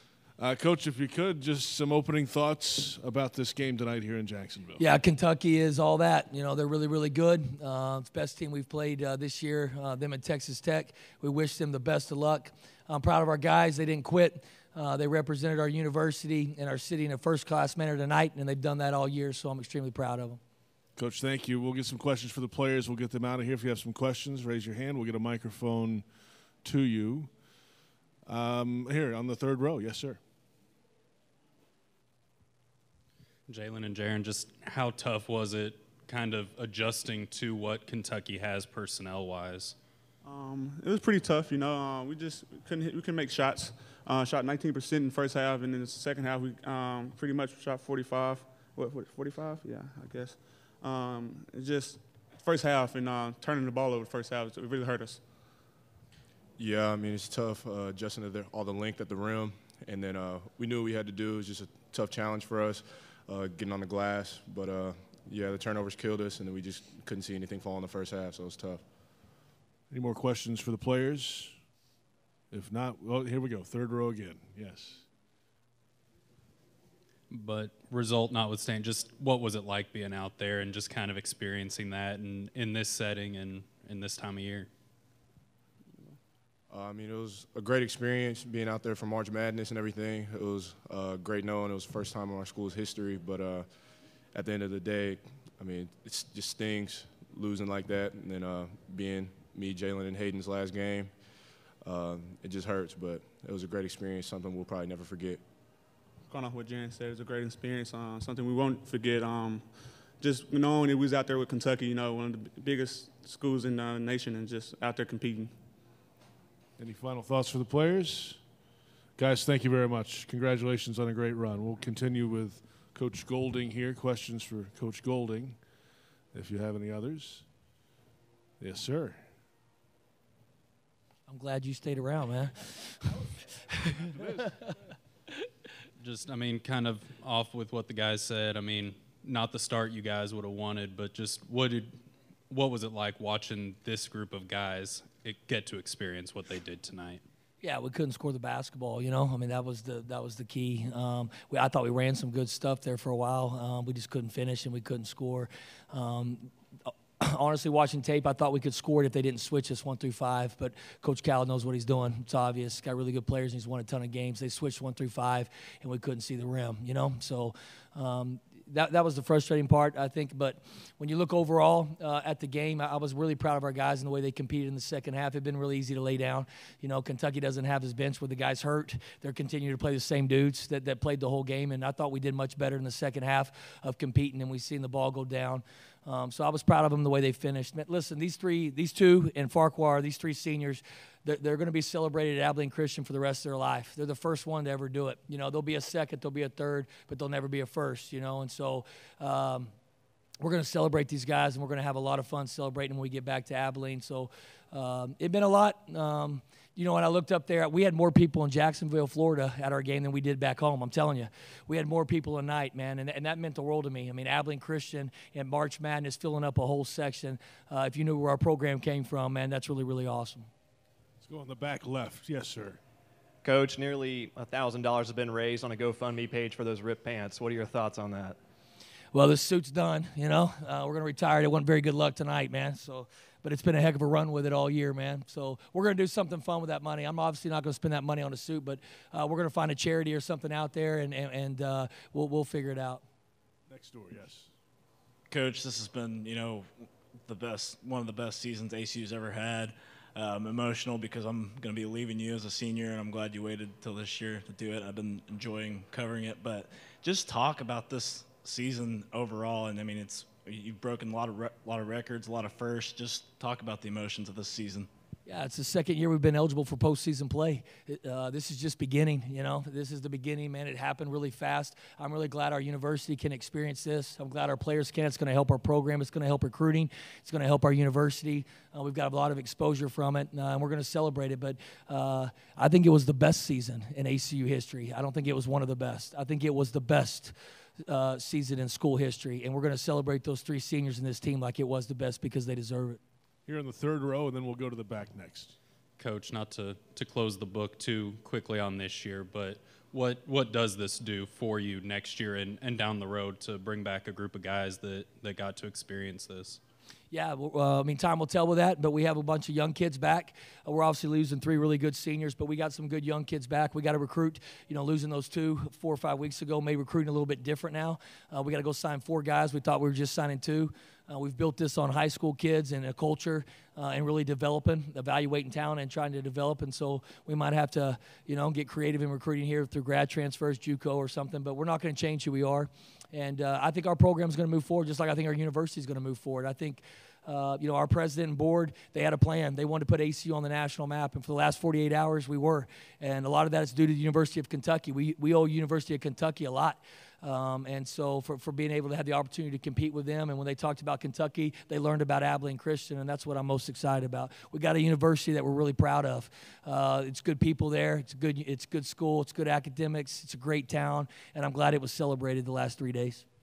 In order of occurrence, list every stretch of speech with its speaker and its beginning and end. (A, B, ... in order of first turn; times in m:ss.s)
0:00.4-0:04.8 A
0:04.8-0:20.4 B
0:21.0-0:27.4 A
0:28.2-0:30.2 A
0:33.5-0:39.8 C
0:40.2-0:55.2 D
0:56.6-1:08.8 E
1:09.9-1:11.6 A
1:12.5-1:15.1 A
1:17.3-1:24.7 C
1:26.7-1:33.7 E
1:34.3-1:41.1 E
1:41.8-1:45.4 E
1:46.3-1:55.6 D
1:56.8-1:58.4 A
1:59.2-2:05.6 A
2:06.3-2:07.5 A
2:08.6-2:09.2 A
2:11.3-2:13.3 B
2:14.0-2:14.5 A
2:16.0-2:21.9 C
2:22.5-2:27.2 C
2:27.6-2:36.5 B
2:37.2-3:19.7 B
3:20.4-3:40.5 B
3:41.2-3:42.8 A
3:43.4-3:48.3 F
3:49.1-4:03.0 B
4:03.7-4:04.5 A
4:05.3-4:24.9 G
4:25.2-4:47.3 B
4:47.9-4:53.0 B
4:53.4-4:55.6 A
4:56.0-5:06.6 C
5:07.1-6:03.2 B